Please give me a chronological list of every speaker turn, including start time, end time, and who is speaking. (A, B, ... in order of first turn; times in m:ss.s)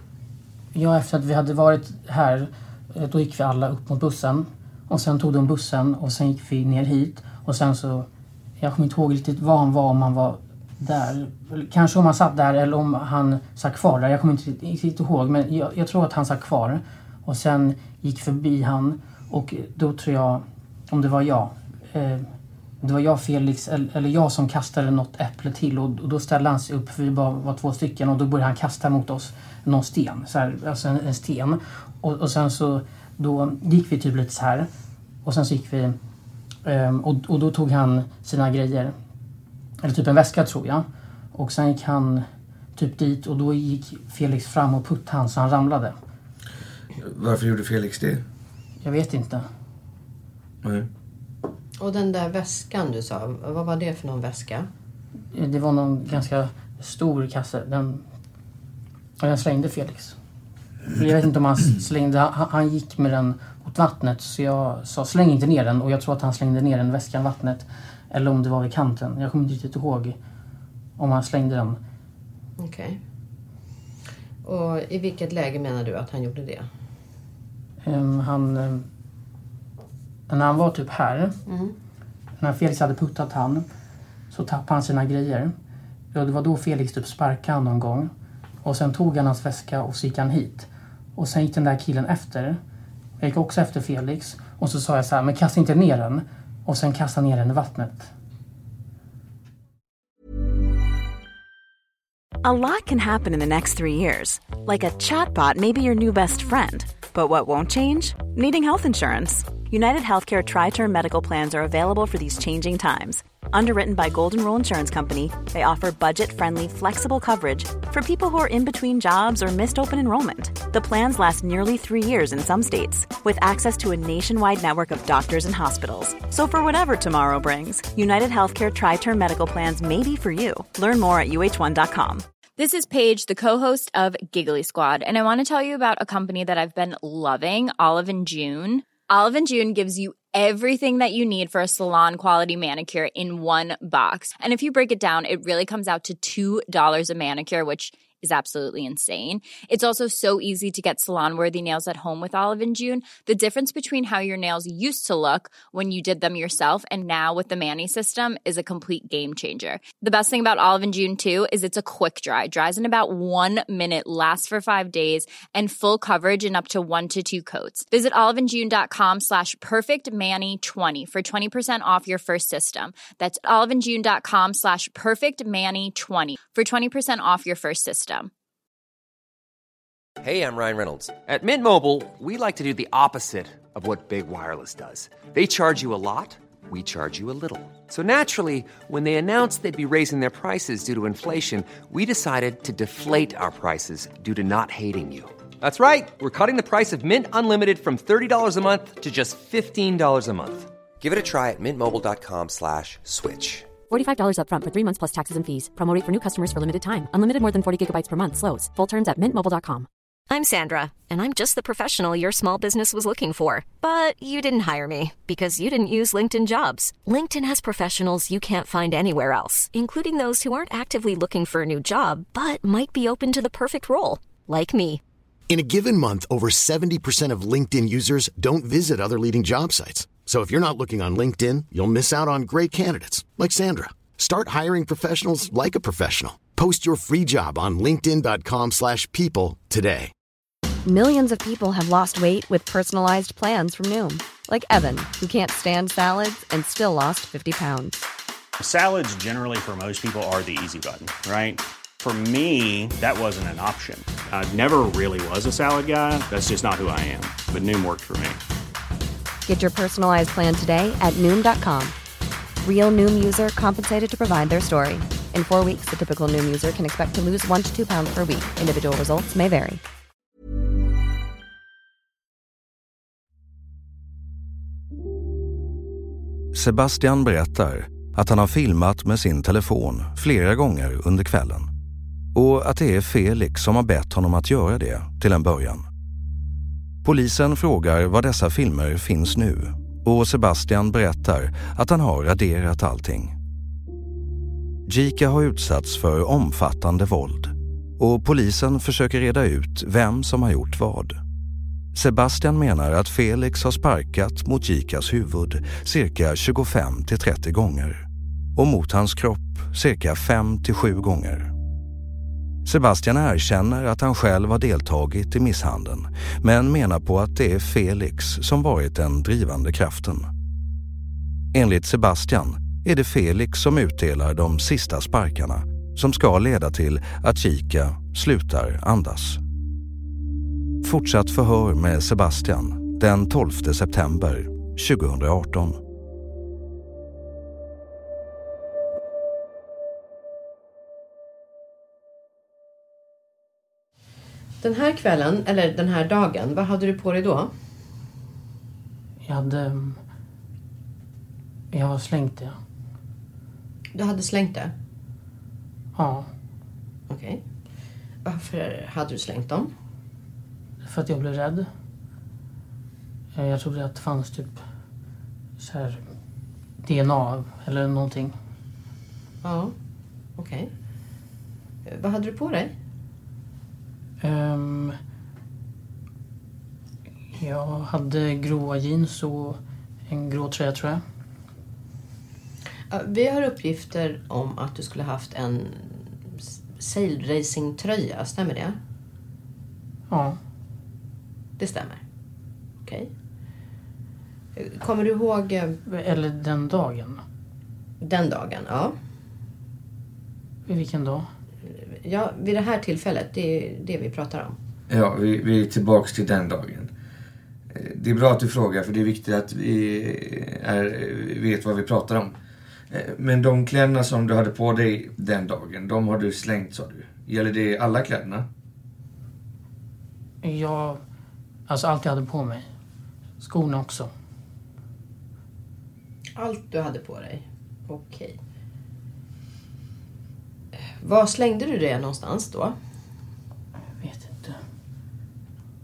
0:00.7-0:08.1 A
0:08.6-0:22.3 A
0:22.8-0:34.7 A
0:35.2-0:36.0 A
0:36.6-0:38.9 A
0:39.8-0:42.2 A
0:42.8-0:46.0 A
0:47.0-0:48.2 B
0:48.8-0:49.4 A
0:51.8-0:54.7 C
0:55.3-0:58.0 A
0:59.2-1:00.2 A
1:00.9-1:10.2 A
1:11.0-1:11.8 A
1:12.6-1:13.0 C
1:14.4-1:16.6 C
1:17.8-1:18.9 A
1:20.3-1:21.4 A
1:21.4-1:21.8 C
1:22.4-1:23.6 A
1:24.3-1:25.5 A
1:26.1-1:28.1 A
1:28.6-1:32.6 A
1:33.2-1:38.1 A
1:42.4-2:12.2 D
2:12.6-2:58.3 E
3:00.2-3:23.7 F
3:23.9-3:29.9 G
3:30.3-3:45.0 H
3:45.5-4:00.1 I
4:00.8-4:08.0 J
4:08.6-4:18.4 K
4:19.4-4:21.9 J
4:22.6-4:29.8 J
4:36.5-4:41.7 L
4:42.3-4:45.8 L
4:47.0-4:53.4 L
4:54.8-5:01.2 L
5:01.9-5:08.0 L
5:08.6-5:11.5 L
5:12.6-5:20.3 L
5:21.5-5:29.4 L
5:30.8-5:35.8 L
5:44.6-5:47.5 C
5:49.2-5:50.0 A
5:51.7-5:52.6 A
5:53.9-5:54.7 C
5:56.0-5:56.3 A
5:57.1-5:57.4 C
5:58.2-5:59.7 C
6:00.8-6:01.7 A
6:03.4-6:04.6 A
6:05.6-6:06.0 A
6:06.8-6:08.3 A
6:09.4-6:09.7 C
6:10.4-6:10.7 C
6:11.8-6:12.7 C
6:14.2-6:15.0 A
6:17.4-6:21.0 A
6:22.9-6:26.1 C
6:26.8-6:28.8 C
6:30.1-6:30.4 A
6:31.6-6:32.0 C
6:32.8-6:33.1 C
6:34.6-6:35.8 C
6:35.8-6:37.2 A
6:38.0-6:38.9 C
6:40.7-6:41.3 A
6:41.6-6:44.6 C
6:44.9-6:46.9 B
6:47.7-6:52.4 B
6:52.9-6:58.5 B
7:00.4-7:01.0 A
7:01.7-7:02.7 A
7:03.4-7:04.1 A
7:06.4-7:08.4 C
7:10.8-7:12.7 C
7:14.0-7:14.6 A